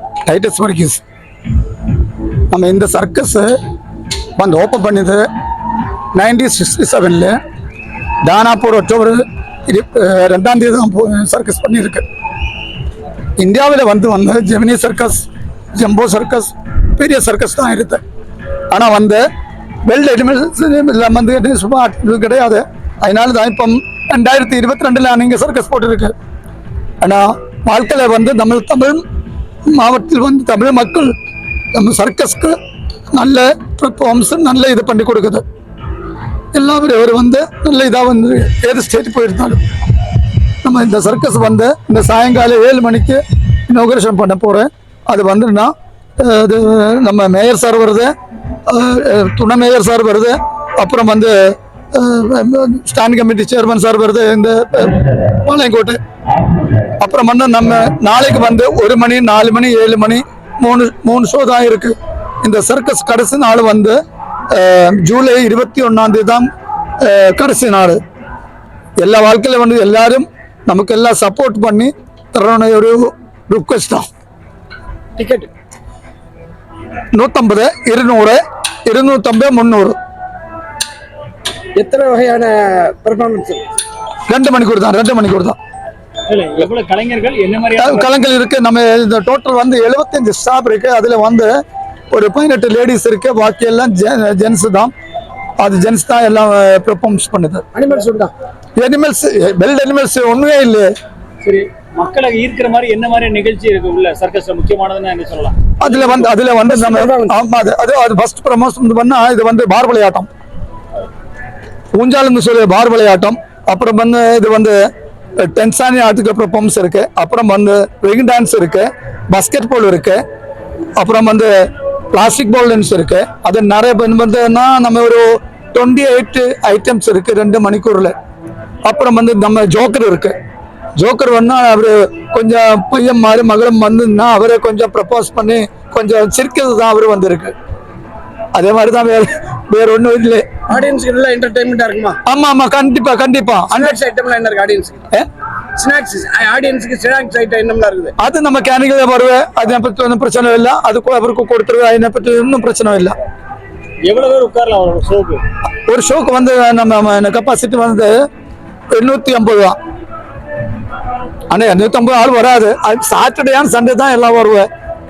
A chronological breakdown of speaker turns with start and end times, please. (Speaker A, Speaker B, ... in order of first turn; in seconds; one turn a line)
Speaker A: 0.3-1.0
Speaker A: 2.5-3.6
Speaker A: 4.4-5.3
Speaker A: 6.1-7.4
Speaker A: 8.2-12.0
Speaker A: 13.4-18.0
Speaker A: 18.7-19.2
Speaker A: 19.8-26.1
Speaker A: 27.0-29.0
Speaker A: 29.7-31.1
Speaker A: 31.7-32.5
Speaker A: 33.1-35.4
Speaker A: 36.5-39.6
Speaker A: 40.6-48.1
Speaker A: 48.7-56.0
Speaker A: 57.0-64.0
Speaker A: 64.5-66.5
Speaker A: 67.0-68.0
Speaker A: 69.0-74.1
Speaker B: 75.2-75.5
Speaker A: 77.1-80.0
Speaker B: 81.8-83.7
Speaker A: 84.3-85.6
Speaker C: 86.3-88.1
Speaker A: 87.8-91.5
Speaker A: 92.1-94.9
Speaker A: 95.6-97.7
Speaker B: 97.7-98.3
Speaker A: 98.8-100.9
Speaker C: 101.4-106.3
Speaker A: 105.8-110.3
Speaker B: 106.7-107.3
Speaker A: 111.9-114.8
Speaker A: 115.4-120.2
Speaker A: 121.0-121.5
Speaker A: 122.1-128.1
Speaker A: 128.8-130.4
Speaker A: 131.0-137.5
Speaker A: 138.6-140.5
Speaker B: 140.7-142.2
Speaker A: 142.2-144.0
Speaker B: 143.7-145.1
Speaker B: 145.8-148.1
Speaker A: 148.2-153.2
Speaker C: 154.1-155.4
Speaker A: 155.8-158.1
Speaker A: 158.9-159.8
Speaker A: 161.5-164.7